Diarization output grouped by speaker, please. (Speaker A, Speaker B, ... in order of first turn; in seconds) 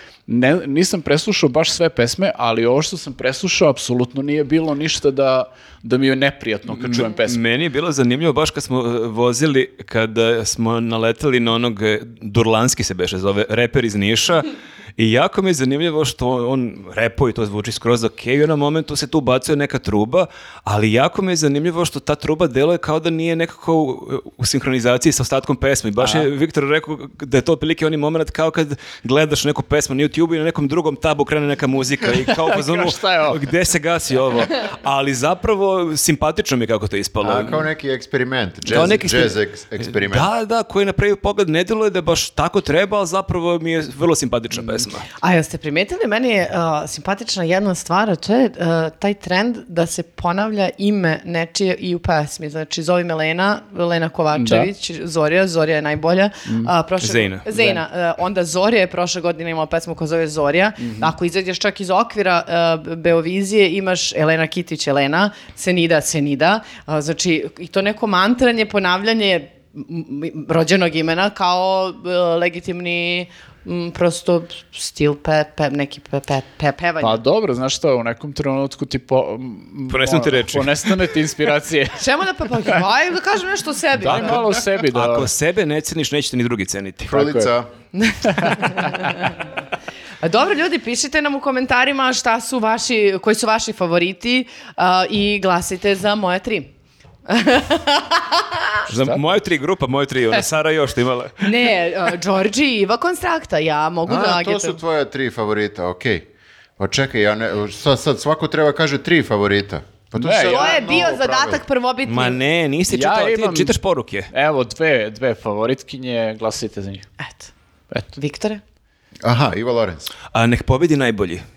Speaker A: 0.3-7.4, 26.0-26.3, 32.2-33.4, 54.4-54.7, 56.5-56.7, 57.5-57.8, 60.8-61.1, 77.0-82.0, 84.0-85.3, 87.1-87.5, 88.3-88.7, 110.2-110.8, 112.9-113.7, 114.3-117.1
Speaker B: 6.7-37.6, 38.7-45.0, 57.0-57.4, 79.9-81.0, 84.9-87.1, 98.9-101.5, 112.1-114.3, 120.3-121.4
Speaker C: 37.2-40.3, 87.1-87.7, 104.1-106.3, 106.8-111.6, 119.2-120.1
Speaker D: 45.2-77.2, 82.0-84.5, 87.9-89.4, 90.2-96.7, 97.3-98.8, 101.4-104.8, 110.5-112.4, 117.2-117.5, 118.1-118.6